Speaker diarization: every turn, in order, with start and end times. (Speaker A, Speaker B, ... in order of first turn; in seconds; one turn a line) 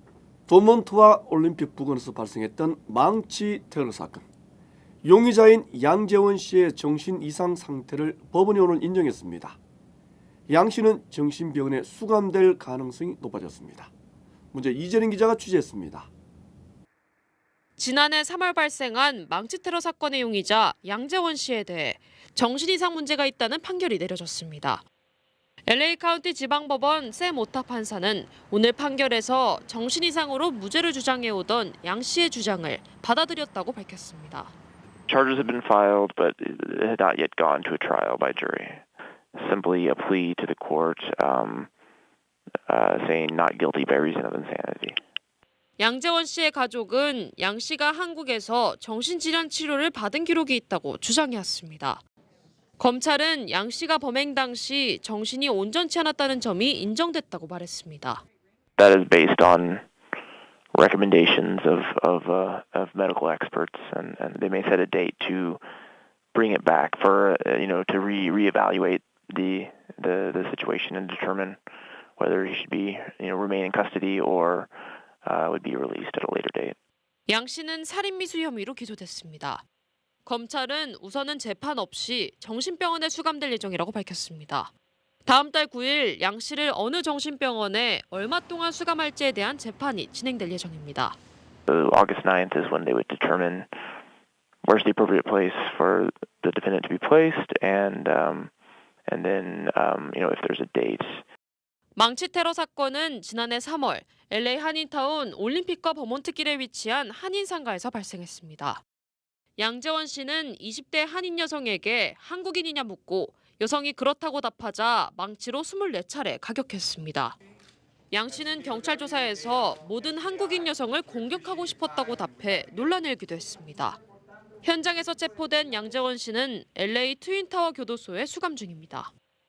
Speaker A: 0.5-4.2
Speaker A: 5.0-9.6
Speaker A: 10.5-13.9
Speaker A: 14.5-16.1
Speaker B: 17.8-24.8
Speaker B: 25.7-34.5
Speaker C: 35.1-38.8
Speaker C: 39.3-41.7
Speaker C: 42.7-45.0
Speaker B: 45.8-52.0
Speaker B: 52.8-58.2
Speaker C: 58.8-59.9
Speaker C: 60.7-65.6
Speaker C: 66.3-71.6
Speaker C: 72.2-74.7
Speaker C: 75.2-76.8
Speaker B: 77.3-79.6
Speaker B: 80.2-84.7
Speaker B: 85.2-91.2
Speaker C: 91.7-93.7
Speaker C: 94.6-98.5
Speaker C: 99.1-101.2
Speaker B: 102.0-108.8
Speaker B: 109.6-117.4
Speaker B: 118.1-124.0
Speaker B: 124.6-129.1